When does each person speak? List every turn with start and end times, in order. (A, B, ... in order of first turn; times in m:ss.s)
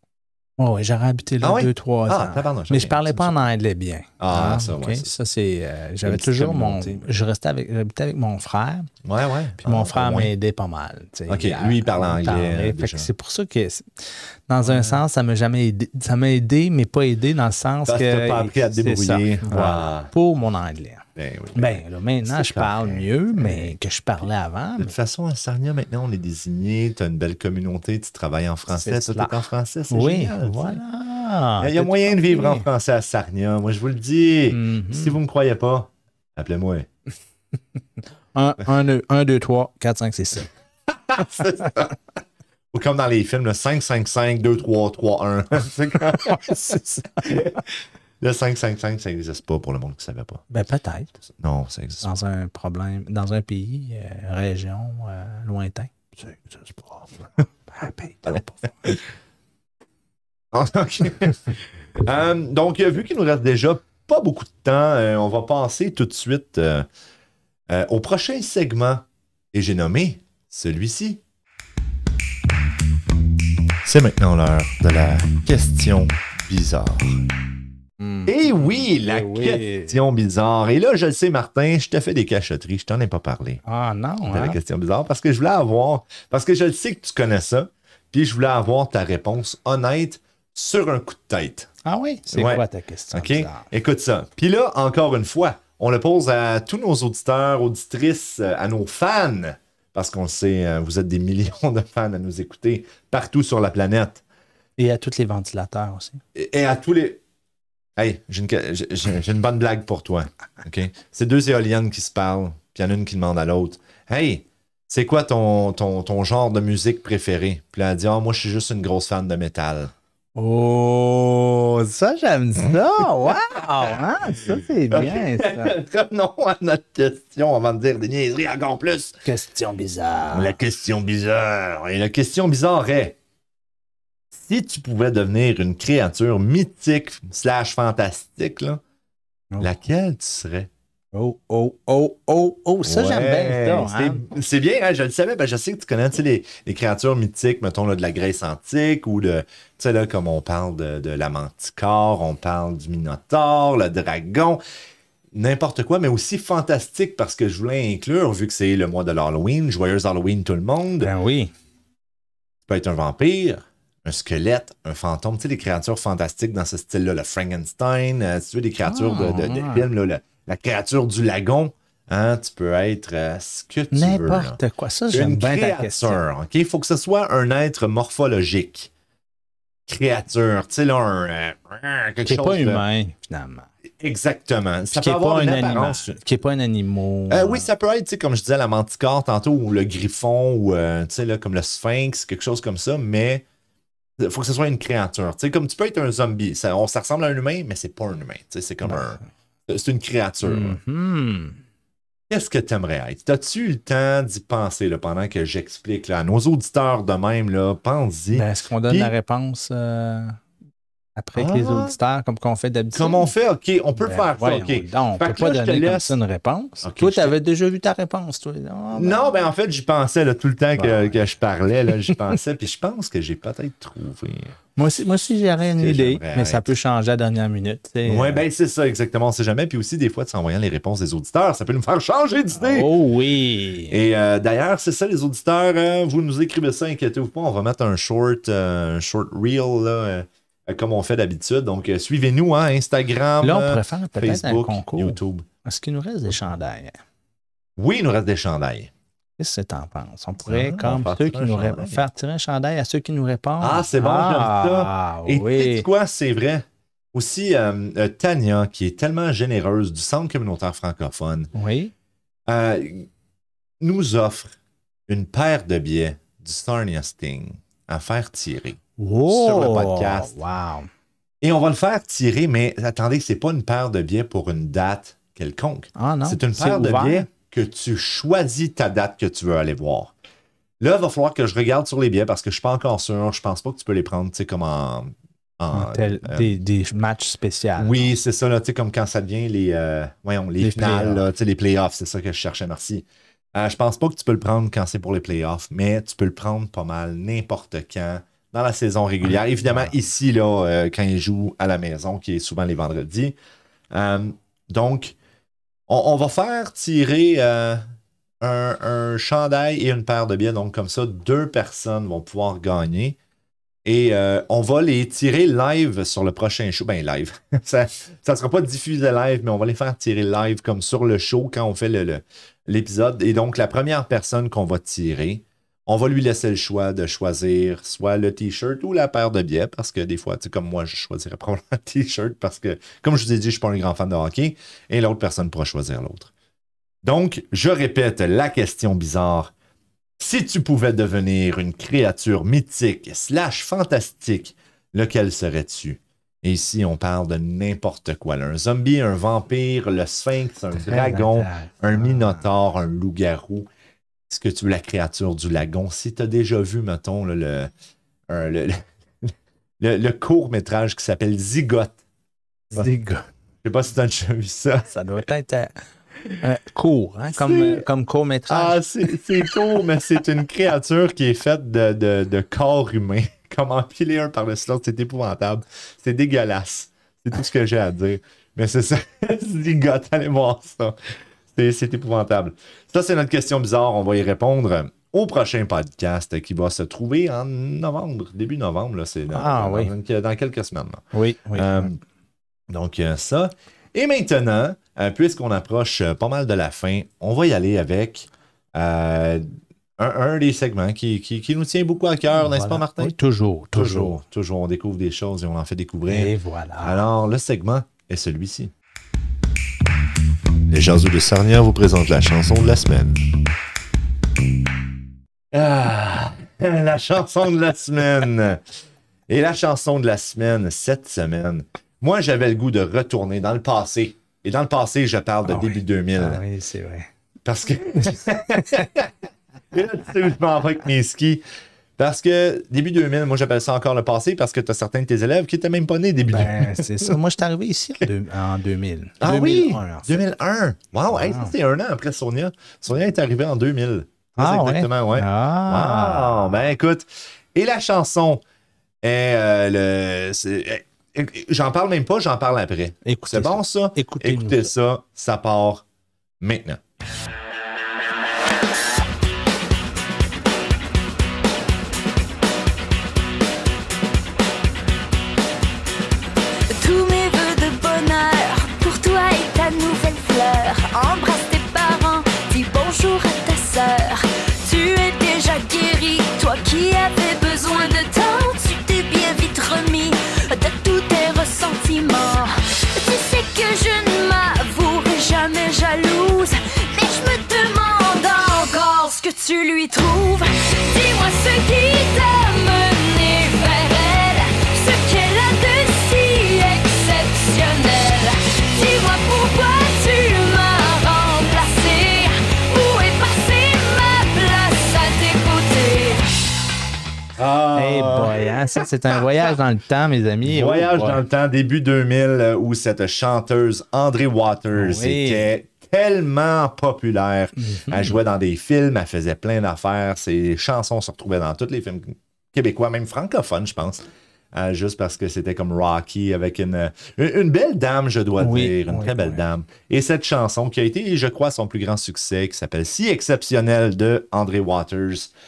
0:00.6-0:08.9 A
0:01.4-0:03.4 B
0:04.2-0:05.2 B
0:06.0-0:07.1 B
0:09.0-0:10.3 B
0:09.6-0:13.9 A
0:11.3-0:13.1 B
0:14.5-0:24.9 A
0:14.6-0:15.0 B
0:17.8-0:20.1 B
0:21.2-0:23.7 B
0:24.8-0:30.8 B
0:28.7-0:32.7 A
0:31.6-0:36.9 B
0:34.5-0:35.2 A
0:38.3-0:40.5 A
0:40.9-0:42.0 B
0:42.7-0:50.4 B
0:50.5-0:51.1 A
0:51.2-0:52.1 B
0:52.0-0:59.0 A
0:58.3-0:59.0 B
1:00.5-1:06.8 B
1:07.7-1:11.2 B
1:13.8-1:17.2 B
1:18.0-1:20.0 A
1:18.2-1:23.6 B
1:23.6-1:24.6 A
1:24.2-1:31.7 B
1:31.8-1:33.6 A
1:32.3-1:44.2 B
1:44.8-1:46.2 A
1:46.3-1:47.2 B
1:48.0-1:59.9 B
2:00.3-2:05.7 A
2:04.9-2:09.2 B
2:09.2-2:10.6 A
2:10.3-2:13.2 B
2:14.3-2:18.8 B
2:19.6-2:20.7 B
2:21.1-2:24.2 A
2:22.8-2:34.6 B
2:35.3-2:41.1 B
2:41.0-2:41.5 A
2:42.7-2:54.6 B
2:48.8-2:49.9 A
2:53.9-2:56.2 A
2:55.1-2:58.9 B
2:59.9-3:02.8 B
3:02.2-3:03.7 A
3:04.0-3:06.2 B
3:04.9-3:07.7 A
3:07.3-3:13.4 B
3:14.2-3:20.8 B
3:18.8-3:19.2 A
3:20.4-3:21.6 A
3:22.3-3:29.1 B
3:28.3-3:30.4 A
3:31.2-3:33.3 A
3:31.4-3:32.0 B
3:32.9-3:36.2 B
3:34.0-3:39.3 A
3:36.8-3:37.4 B
3:38.9-3:44.6 B
3:40.8-3:41.2 A
3:41.9-3:42.3 A
3:44.8-3:48.4 A
3:45.8-3:46.6 B
3:48.0-3:52.9 B
3:52.5-3:54.0 A
3:53.9-4:05.4 B
4:03.4-4:07.0 A
4:07.8-4:08.9 B
4:09.4-4:15.9 A
4:10.4-4:12.0 B
4:13.6-4:21.5 B
4:21.5-4:21.9 A
4:22.5-4:23.1 B
4:23.8-4:24.5 B
4:25.1-4:30.4 B
4:29.0-4:30.9 A
4:31.4-4:40.1 B
4:36.0-4:37.3 A
4:40.8-4:46.5 B
4:45.7-4:48.1 A
4:47.8-5:03.3 B
4:50.6-4:51.3 A
4:59.2-4:59.9 A
5:03.9-5:05.2 B
5:05.9-5:07.8 B
5:08.4-5:13.2 B
5:13.8-5:36.3 B
5:37.0-5:39.5 B
5:40.2-5:53.7 B
5:50.8-5:52.4 A
5:54.3-5:57.7 B
5:58.3-6:02.0 B
6:02.7-6:03.2 A
6:03.6-6:04.9 B
6:04.9-6:05.7 A
6:06.4-6:09.8 A
6:07.3-6:07.8 B
6:08.5-6:21.0 B
6:21.5-6:31.0 B
6:29.3-6:29.9 A
6:31.1-6:31.9 A
6:31.5-6:32.0 B
6:32.7-6:39.4 B
6:40.0-6:43.2 B
6:42.3-6:44.1 A
6:43.7-6:48.7 B
6:46.1-6:47.0 A
6:50.7-6:53.3 B
6:55.5-6:58.6 B
6:59.3-7:06.4 B
7:05.4-7:07.1 A
7:07.4-7:09.1 B
7:08.6-7:08.8 A
7:09.7-7:11.4 B
7:12.0-7:17.2 B
7:16.3-7:20.2 A
7:19.2-7:28.4 B
7:21.1-7:21.5 A
7:24.4-7:26.6 A
7:29.0-7:35.8 B
7:33.0-7:34.7 A
7:36.4-7:36.8 B
7:46.7-8:26.3 C
8:27.4-8:28.4 B
8:27.7-8:31.2 A
8:30.4-8:55.3 B
8:34.7-8:35.5 A
8:37.6-8:38.2 A
8:48.4-8:49.4 A